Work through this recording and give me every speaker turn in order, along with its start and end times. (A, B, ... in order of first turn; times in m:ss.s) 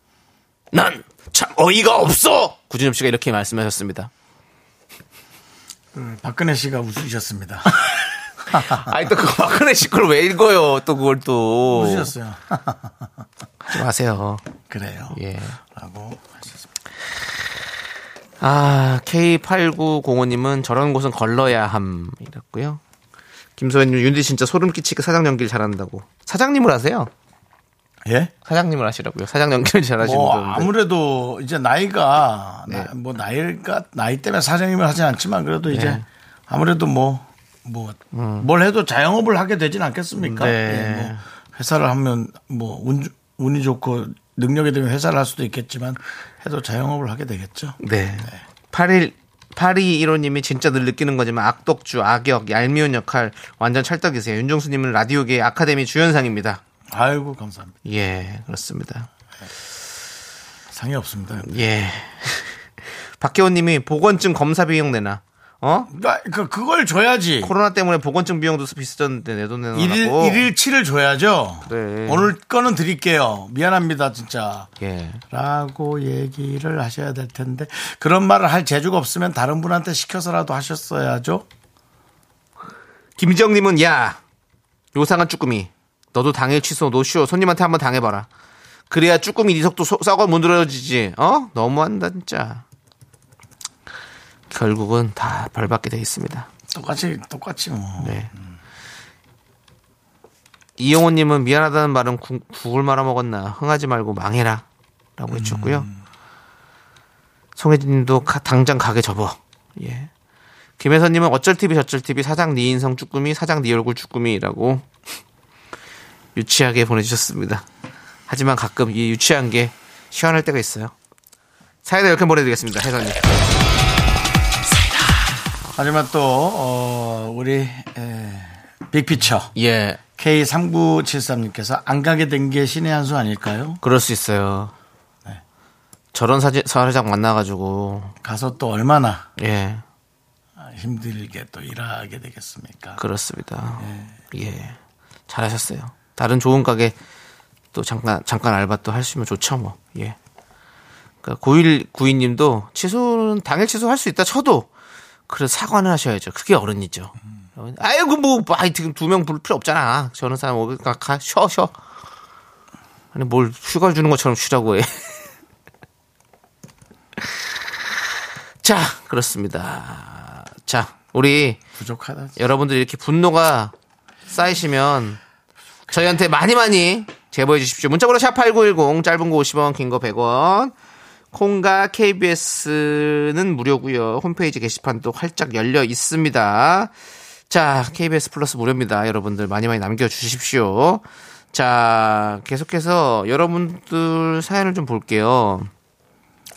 0:00.7-0:04.1 A
0:05.9-0:07.8 B
0:08.5-0:08.8 B
0:08.5-0:12.1 A
0:11.7-0:12.9 B
0:13.7-0:14.4 A
0:14.7-0:15.2 B
0:15.1-0:15.6 A
0:15.7-0:16.6 B
0:18.4-0:22.8 A
0:23.6-0:27.1 A
0:28.0-0:28.3 B
0:28.4-0:30.7 A
0:30.0-0:48.4 B
0:35.7-0:36.0 A
0:38.1-0:38.5 A
0:40.2-0:41.2 A
0:47.8-0:56.6 A
0:56.9-0:57.8 B
0:57.8-0:59.1 A
1:00.7-1:01.5 B
1:01.4-1:02.6 A
1:03.2-1:05.9 A
1:05.9-1:07.5 B
1:07.4-1:10.5 A
1:09.7-1:14.7 B
1:11.7-1:12.3 A
1:14.8-1:15.2 A
1:15.3-1:21.4 B
1:23.2-1:24.2 A
1:24.9-1:28.3 A
1:28.9-1:32.6 A
1:34.5-1:36.5 A
1:36.7-1:38.2 B
1:38.0-1:38.3 A
1:40.8-1:44.6 A
1:45.2-1:45.9 A
1:45.3-1:46.0 B
1:47.6-1:50.1 A
1:50.8-1:54.8 A
1:56.3-1:57.6 A
1:58.3-2:00.9 A
2:01.8-2:03.4 A
2:05.7-2:09.5 B
2:09.5-2:10.0 A
2:10.2-2:13.8 B
2:13.8-2:14.7 A
2:16.1-2:18.1 A
2:18.2-2:19.2 B
2:19.4-2:19.8 A
2:20.6-2:23.0 B
2:23.0-2:24.8 A
2:23.8-2:24.1 B
2:25.3-2:26.9 A
2:27.7-2:30.2 A
2:31.2-2:34.7 A
2:35.3-2:41.7 A
2:43.1-2:45.2 A
2:48.6-2:51.6 A
2:51.8-2:52.4 B
2:52.4-2:53.7 A
2:54.3-2:55.2 A
2:55.9-3:00.7 A
3:01.3-3:06.9 A
3:07.5-3:15.7 A